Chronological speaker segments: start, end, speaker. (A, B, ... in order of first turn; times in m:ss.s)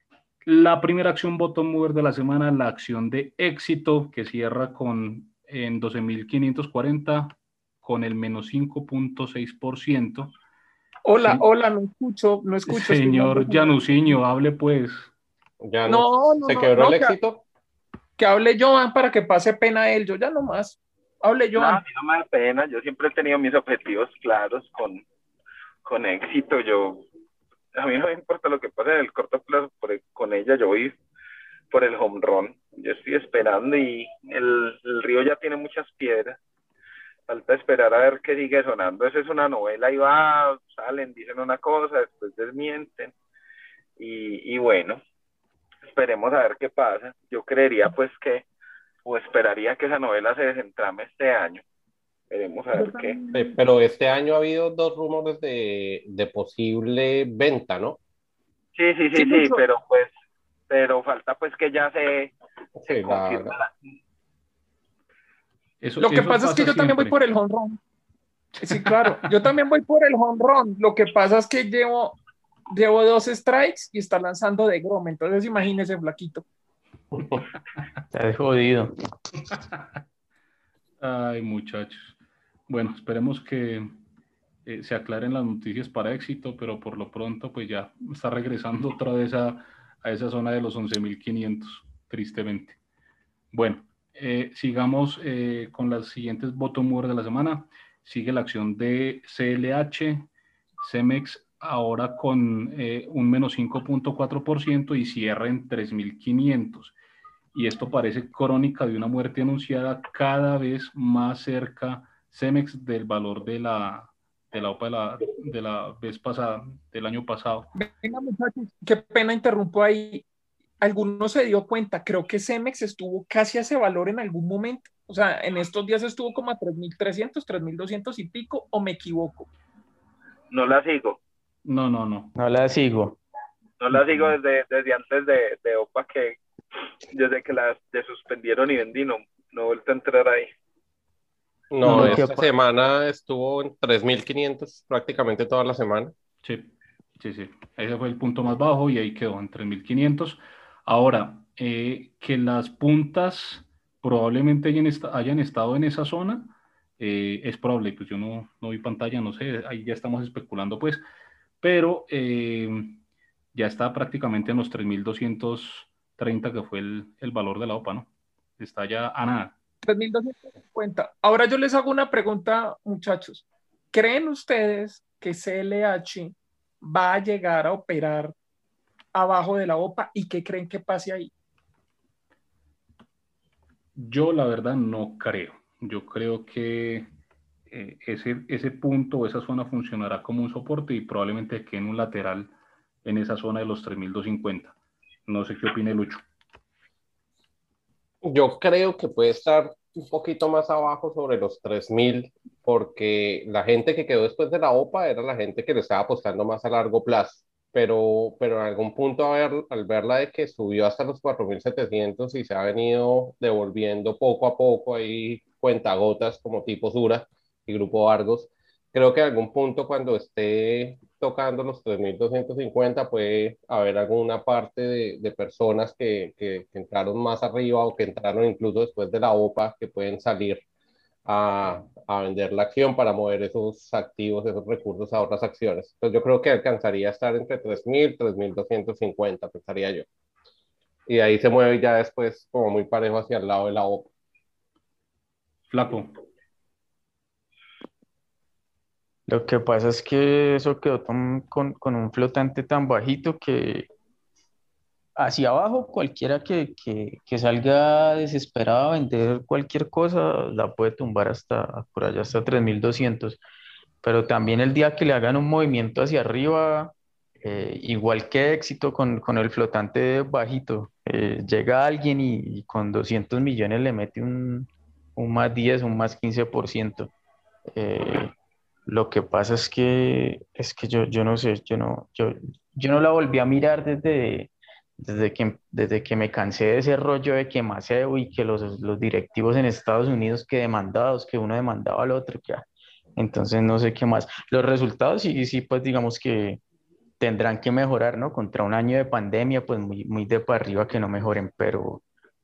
0:00.5-0:10.3 A
0:11.0-0:14.2 B
0:12.7-0:15.1 A
0:15.6-0:17.4 C
0:15.9-0:17.2 B
0:18.2-0:21.8 B
0:21.6-0:25.0 D
0:25.8-0:27.1 D
0:27.7-0:31.0 D
0:31.7-0:36.4 D
0:37.3-0:43.1 D
0:44.0-0:45.0 D
0:45.8-0:48.5 D
0:49.0-0:51.6 D
0:52.3-0:53.2 D
0:52.7-0:53.6 B
0:53.3-0:58.0 C
0:58.8-1:00.1 D
0:59.1-0:59.6 B
1:00.7-1:02.4 D
1:02.8-1:03.6 C
1:02.9-1:03.7 D
1:05.8-1:07.2 A
1:06.0-1:07.8 B
1:08.6-1:09.3 A
1:08.6-1:12.2 B
1:12.7-1:16.4 B
1:18.1-1:19.0 E
1:21.0-1:22.2 A
1:22.7-1:23.9 A
1:24.7-1:32.8 A
1:33.5-1:40.3 A
1:40.8-1:47.0 A
1:47.5-1:57.7 A
1:57.8-2:00.3 B
2:00.8-2:09.5 B
2:10.5-2:11.2 D
2:11.6-2:12.3 A
2:12.4-2:13.2 E
2:13.8-2:16.4 D
2:17.1-2:20.5 D
2:21.7-2:26.1 C
2:21.8-2:22.5 E
2:21.8-2:22.2 A
2:26.4-2:41.0 A
2:41.6-2:43.0 A
2:43.5-2:49.6 A
2:49.8-2:58.4 B
2:59.1-3:01.3 B
3:04.0-3:07.1 A
3:07.7-3:12.5 A
3:13.0-3:14.8 A
3:15.3-3:16.2 A
3:18.2-3:50.6 C
3:51.3-4:00.1 C
4:01.1-4:04.1 C
4:05.7-4:06.1 A
4:09.3-4:13.9 E
4:15.2-4:23.4 E
4:24.0-4:37.1 E
4:37.7-4:38.3 E
4:38.9-4:52.6 E
4:53.2-4:56.6 E
4:57.2-5:02.0 E